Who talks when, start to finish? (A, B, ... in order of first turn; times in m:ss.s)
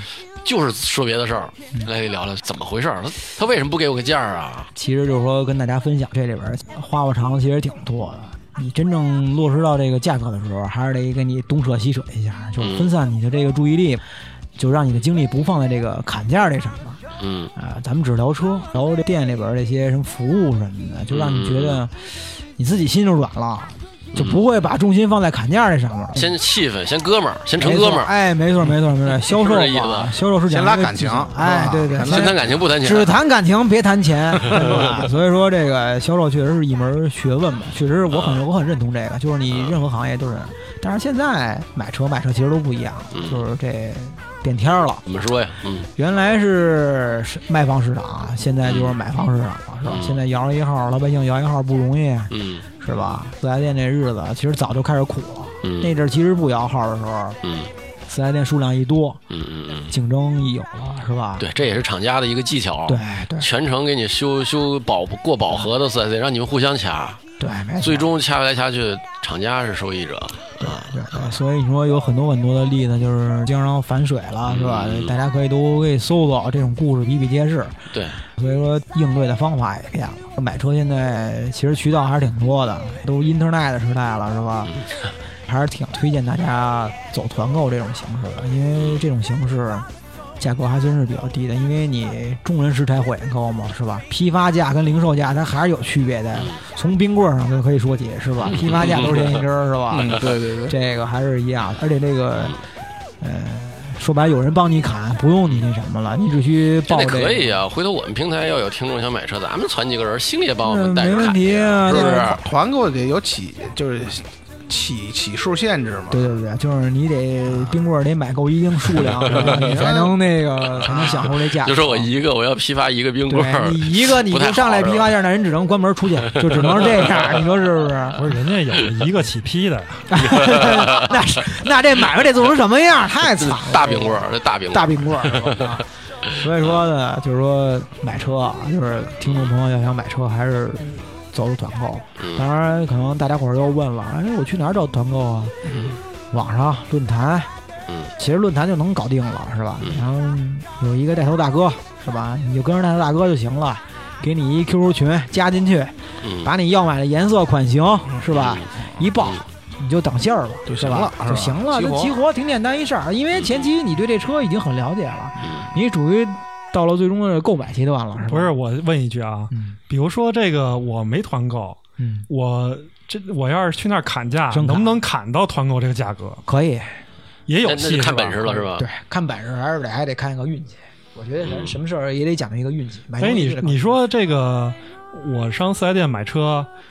0:00.4-0:04.7 A
0:04.7-0:14.0 B
0:12.6-0:12.9 A
0:14.6-0:17.0 B
0:17.2-0:17.5 A
0:17.6-0:26.3 B
0:21.1-0:21.8 A
0:24.1-0:24.4 A
0:26.1-0:28.1 A
0:27.6-0:45.0 B
0:29.2-0:30.2 A
0:30.5-0:32.5 C
0:32.0-0:33.1 A
0:34.5-0:35.0 C
0:38.1-0:38.4 A
0:43.1-0:43.4 A
0:45.0-0:45.9 A
0:46.0-0:57.4 B
0:48.6-0:49.0 A
0:49.8-0:50.2 A
0:52.3-0:53.2 A
0:55.6-0:55.9 A
0:57.4-0:57.7 A
0:58.1-0:59.2 B
0:59.3-0:59.9 A
0:59.9-1:01.4 B
1:01.4-1:07.2 A
1:02.9-1:03.5 B
1:07.4-1:08.1 B
1:07.8-1:11.3 A
1:10.6-1:17.8 B
1:14.5-1:15.1 A
1:17.9-1:18.2 A
1:18.4-1:24.8 B
1:24.7-1:24.9 A
1:25.4-1:29.9 B
1:30.4-1:42.6 B
1:38.5-1:39.3 A
1:39.9-1:40.7 C
1:43.2-1:47.6 B
1:46.9-1:52.4 A
1:50.6-1:52.4 B
1:51.9-1:56.3 C
1:56.1-2:02.1 B
1:59.2-1:59.7 A
1:59.2-2:00.1 C
2:00.8-2:05.1 A
2:03.3-2:08.2 B
2:06.4-2:07.3 A
2:08.1-2:10.6 D
2:10.1-2:25.5 B
2:10.6-2:11.1 A
2:13.3-2:15.8 A
2:22.2-2:22.4 A
2:25.7-2:26.0 A
2:26.3-2:27.5 B
2:28.2-2:48.5 B
2:36.2-2:36.5 A
2:38.3-2:38.7 A
2:40.7-2:42.2 C
2:43.3-2:43.7 A
2:45.4-2:45.7 A
2:48.2-2:56.4 D
2:49.5-2:49.8 B
2:52.0-2:52.3 B
2:54.5-2:55.0 B
2:56.4-2:57.0 B
2:57.5-2:58.6 D
2:57.6-2:58.8 A
2:58.7-3:04.0 B
3:01.4-3:01.7 A
3:03.2-3:06.7 D